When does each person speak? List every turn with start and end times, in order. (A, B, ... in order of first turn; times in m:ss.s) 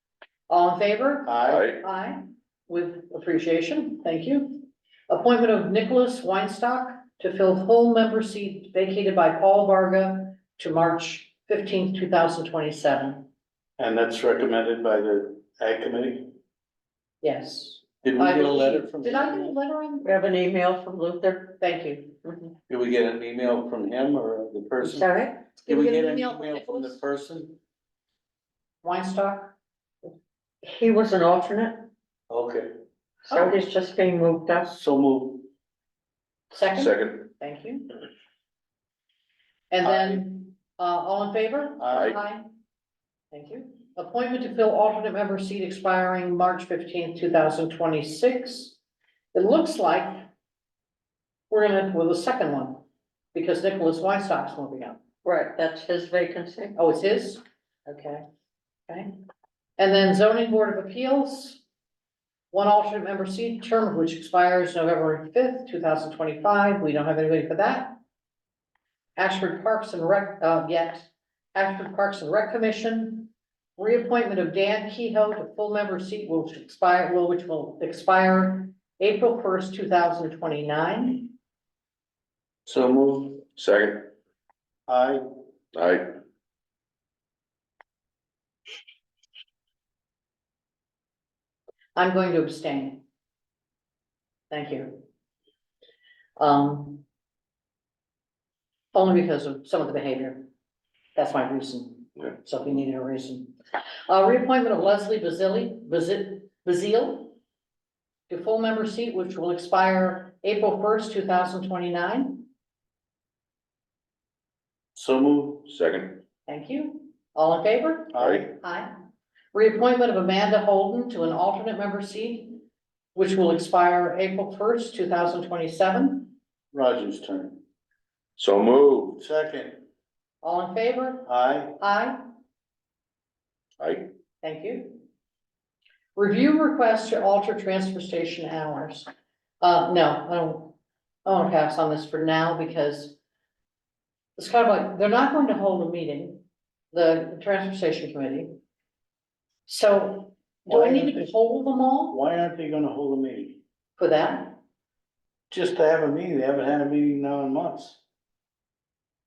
0:00.5-0:13.3 A
0:01.2-0:01.7 B
0:01.5-0:01.8 C
0:13.8-0:16.3 B
0:17.2-0:20.1 A
0:18.0-0:19.6 B
0:20.0-0:21.6 D
0:21.6-0:22.2 A
0:22.2-0:22.5 D
0:22.7-0:25.1 B
0:24.8-0:25.5 D
0:25.6-0:27.0 A
0:25.6-0:27.6 B
0:28.8-0:29.5 A
0:30.6-0:31.9 D
0:32.3-0:32.7 B
0:33.3-0:34.8 D
0:34.7-0:35.5 B
0:36.5-0:38.0 A
0:36.7-0:37.3 C
0:39.7-0:42.4 A
0:39.8-0:40.2 B
0:41.8-0:42.2 B
0:41.9-0:42.2 C
0:43.3-0:48.8 A
0:49.3-0:50.3 A
0:51.5-0:52.8 A
0:53.3-0:55.0 A
0:55.2-0:56.8 D
0:56.8-0:58.2 A
0:58.9-0:59.1 A
0:59.8-1:01.6 A
1:02.5-1:08.0 A
1:09.2-1:21.3 A
1:22.6-1:23.4 B
1:23.6-1:24.1 C
1:24.9-1:25.2 B
1:25.7-1:26.1 C
1:32.0-1:33.0 A
1:34.5-1:35.0 A
1:36.4-1:37.0 A
1:38.9-1:40.5 A
1:41.1-1:43.5 A
1:44.1-1:47.4 A
1:48.3-1:52.4 A
1:54.9-1:55.7 B
1:55.7-1:56.2 C
1:56.5-1:58.9 A
1:58.1-1:58.5 B
1:58.2-1:58.4 C
1:59.5-2:02.6 A
2:03.1-2:06.3 A
2:06.7-2:07.6 B
2:08.4-2:09.2 C
2:09.2-2:09.8 B
2:10.4-2:11.3 A
2:11.2-2:11.8 B
2:11.8-2:12.2 A
2:13.8-2:14.1 C
2:14.4-2:15.0 A
2:16.2-2:19.1 A
2:19.6-2:23.2 A
2:24.4-2:28.6 A
2:29.6-2:32.1 A
2:30.7-2:31.3 B
2:32.1-2:33.6 B
2:34.0-2:34.6 A
2:35.5-2:38.0 B